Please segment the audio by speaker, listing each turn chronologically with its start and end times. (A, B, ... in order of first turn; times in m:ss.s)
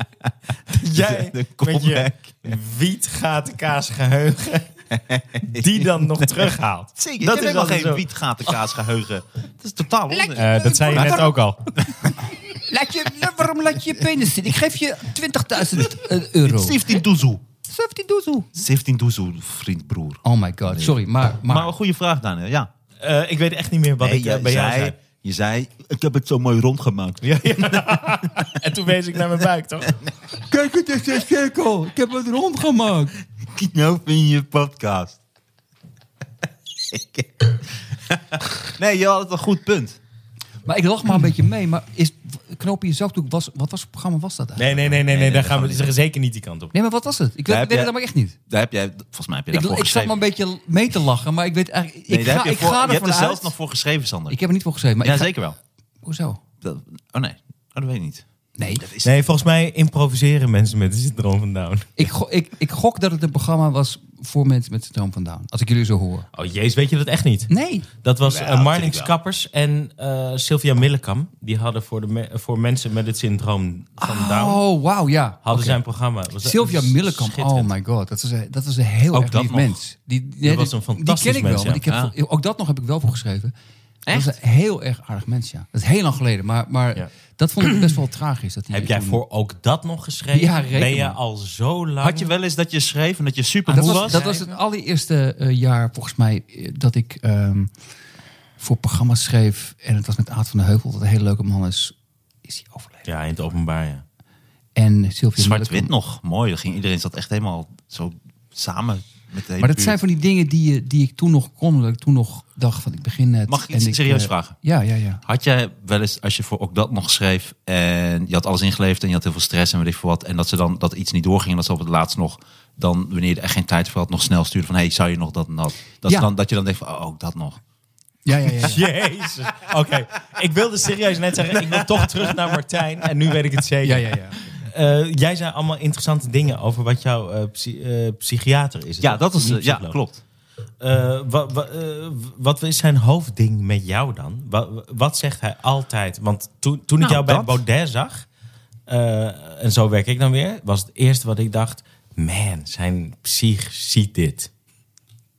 0:00.2-0:02.3 A
0:00.7-0:04.7 B
0:04.9-0:12.1 A
0:05.4-0:08.0 B
0:10.2-0:11.2 C
0:10.3-0:11.7 B
0:12.5-0:17.0 C
0:16.4-0:17.4 A
0:17.7-0:18.5 C
0:18.5-0:22.7 A
0:20.2-0:21.7 C
0:23.0-0:25.0 B
0:24.0-0:28.5 A
0:27.2-0:30.0 B
0:30.5-0:33.1 C
0:33.5-0:35.2 A
0:36.9-0:40.0 A
0:40.6-0:44.8 C
0:44.6-0:46.7 B
0:44.7-0:46.0 A
0:46.7-0:48.3 C
0:47.5-0:47.9 A
0:48.5-0:50.2 A
0:49.5-0:53.5 C
0:52.1-0:54.4 A
0:54.3-0:55.3 C
0:55.0-0:55.6 A
0:56.0-0:56.4 C
0:56.6-0:59.1 A
0:58.6-0:58.9 C
0:59.0-1:02.1 B
1:02.0-1:06.3 C
1:06.3-1:07.5 B
1:07.5-1:07.9 C
1:08.0-1:14.6 B
1:08.2-1:09.1 A
1:14.0-1:15.8 C
1:15.4-1:17.7 B
1:16.4-1:23.5 C
1:19.1-1:19.8 A
1:20.4-1:21.8 B
1:21.9-1:22.1 A
1:24.0-1:24.3 A
1:24.1-1:29.2 C
1:28.7-1:32.3 B
1:30.3-1:31.2 C
1:32.0-1:34.2 A
1:33.7-1:37.7 C
1:33.7-1:34.6 B
1:38.6-1:43.1 C
1:43.0-1:44.0 B
1:44.8-1:45.9 C
1:45.4-1:50.0 A
1:49.6-1:55.2 C
1:53.5-1:54.5 A
1:55.2-2:07.6 A
2:08.2-2:08.8 C
2:08.6-2:20.0 B
2:13.8-2:14.4 C
2:19.0-2:20.2 A
2:20.8-2:28.2 B
2:27.0-2:27.6 A
2:28.9-2:34.5 B